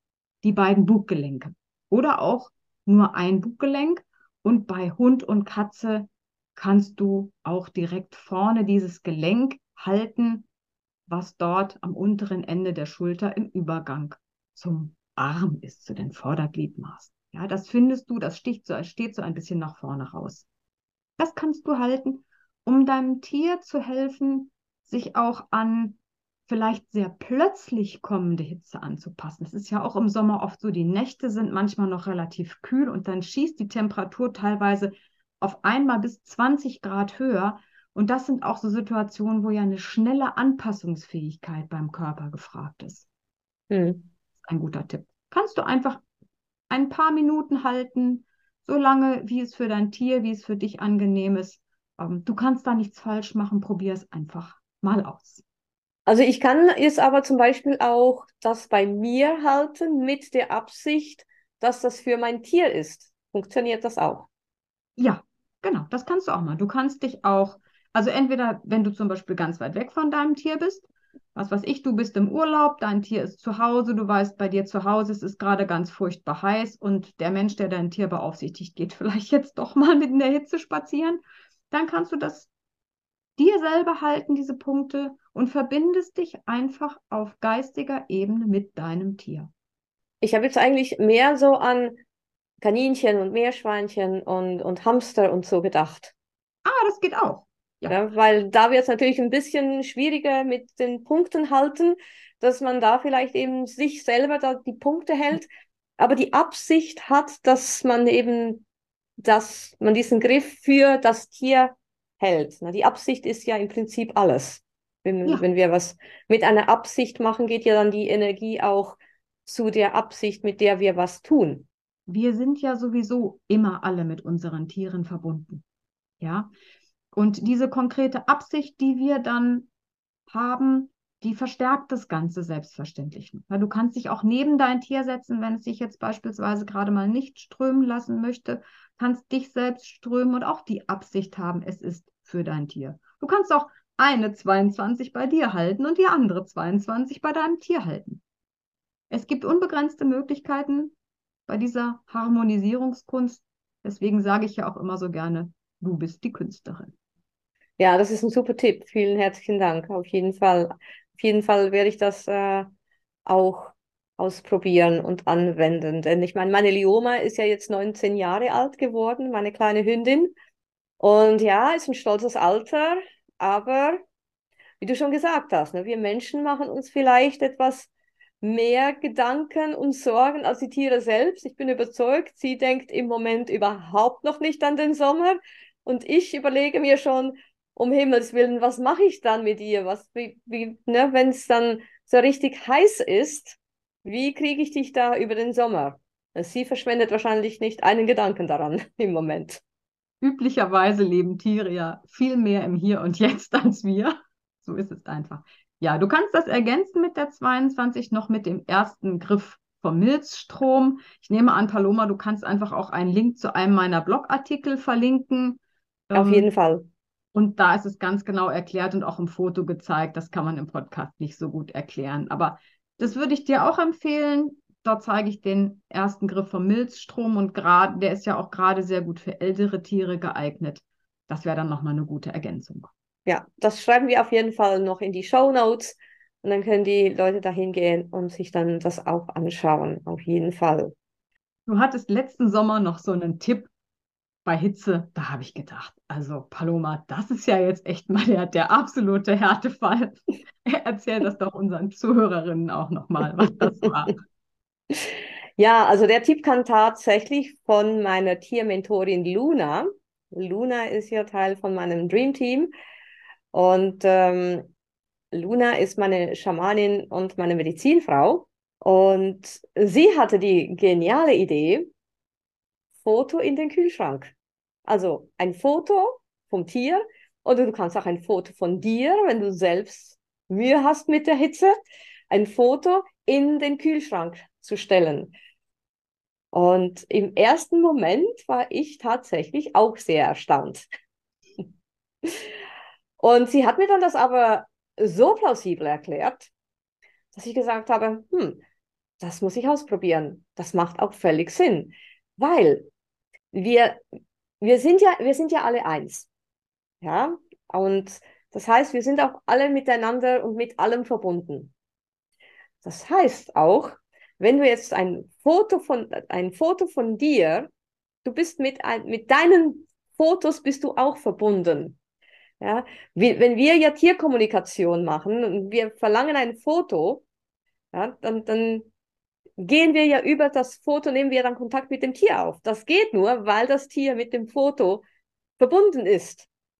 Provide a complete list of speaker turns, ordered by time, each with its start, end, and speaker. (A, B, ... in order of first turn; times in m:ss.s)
0:00.4-0:10.4 A
0:11.1-0:20.4 A
0:21.2-0:43.0 A
0:43.7-0:44.0 B
0:44.4-0:46.0 A
0:46.7-0:55.4 A
0:56.0-1:04.3 B
1:05.0-1:22.5 A
1:23.4-1:29.5 A
1:30.2-1:32.0 B
1:32.6-1:36.1 B
1:36.6-1:38.0 A
1:37.9-1:48.6 B
1:49.2-2:01.7 B
2:02.1-2:05.6 A
2:06.2-2:06.5 A
2:07.1-2:09.7 A
2:10.3-2:28.2 A
2:29.1-2:30.9 A
2:31.5-2:36.9 A
2:37.8-2:42.7 B
2:43.2-2:50.3 B
2:51.0-2:54.0 B
2:54.8-2:57.9 B
2:58.4-3:19.6 B
3:20.2-3:36.5 A
3:36.1-3:36.9 B
3:37.3-3:52.9 A
3:53.2-4:00.9 B
4:01.7-4:03.7 A
4:04.4-4:14.2 A
4:14.9-4:22.7 B
4:23.5-4:24.7 B
4:25.3-4:31.9 B
4:33.0-4:34.3 B
4:34.8-4:41.7 B
4:42.3-4:45.3 B
4:46.5-4:50.8 B
4:53.2-4:56.5 B
4:57.3-4:58.6 B
4:59.2-5:02.9 B
5:03.5-5:04.0 B
5:04.6-5:06.3 B
5:07.0-5:11.7 B
5:12.8-5:17.7 B
5:18.2-5:22.0 B
5:22.6-5:27.2 B
5:27.9-5:28.9 B
5:29.6-5:35.0 B
5:35.6-5:36.5 B